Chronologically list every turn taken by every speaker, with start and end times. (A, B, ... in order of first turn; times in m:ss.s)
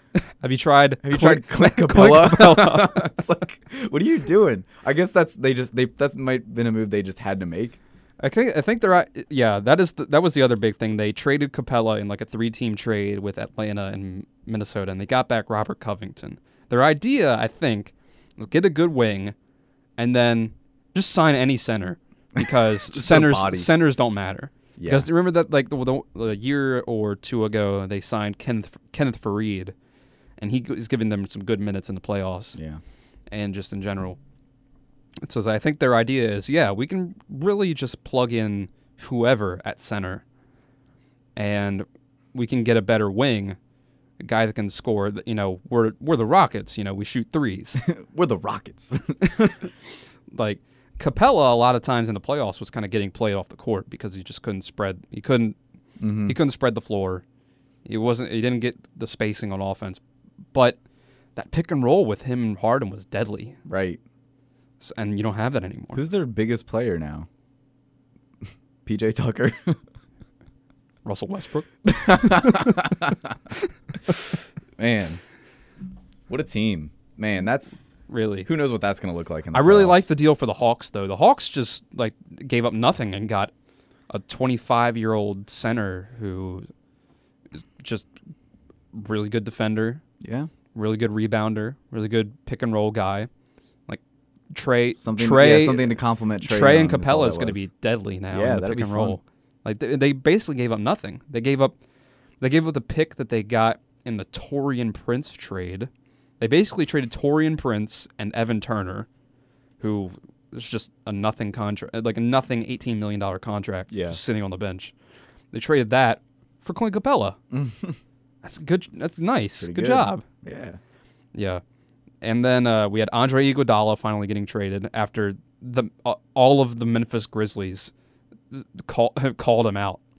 0:00.4-0:03.1 A
0:01.0-0:07.8 B
0:08.2-0:19.4 A
0:20.0-0:29.7 A
0:22.4-0:23.7 B
0:24.8-0:25.1 B
0:30.4-0:32.6 A
0:32.6-0:32.8 B
0:33.3-0:34.2 A
0:35.2-0:40.2 A
0:41.4-0:43.6 A
0:44.2-0:47.8 A
0:47.8-0:49.7 B
0:50.3-0:55.6 A
0:56.0-0:56.4 B
0:56.3-0:57.2 A
0:57.8-1:00.0 A
1:00.5-1:00.8 A
1:01.4-1:03.6 A
1:03.7-1:04.0 B
1:04.8-1:06.0 A
1:05.9-1:07.3 B
1:08.9-1:09.8 B
1:11.0-1:12.8 A
1:11.8-1:13.5 B
1:14.1-1:15.2 B
1:16.3-1:17.8 B
1:18.1-1:18.5 A
1:18.5-1:20.1 B
1:19.5-1:23.5 A
1:24.1-1:26.7 A
1:27.6-1:28.1 A
1:28.9-1:30.0 A
1:30.2-1:30.5 B
1:30.7-1:33.3 A
1:33.9-1:41.8 A
1:35.0-1:37.7 B
1:38.3-1:39.2 B
1:42.4-1:49.1 A
1:49.8-1:54.9 A
1:53.9-1:54.2 B
1:55.5-1:57.4 A
1:57.5-1:58.0 B
1:58.4-2:00.2 A
1:59.6-2:00.8 B
2:01.3-2:01.6 A
2:02.2-2:07.9 A
2:08.5-2:10.0 A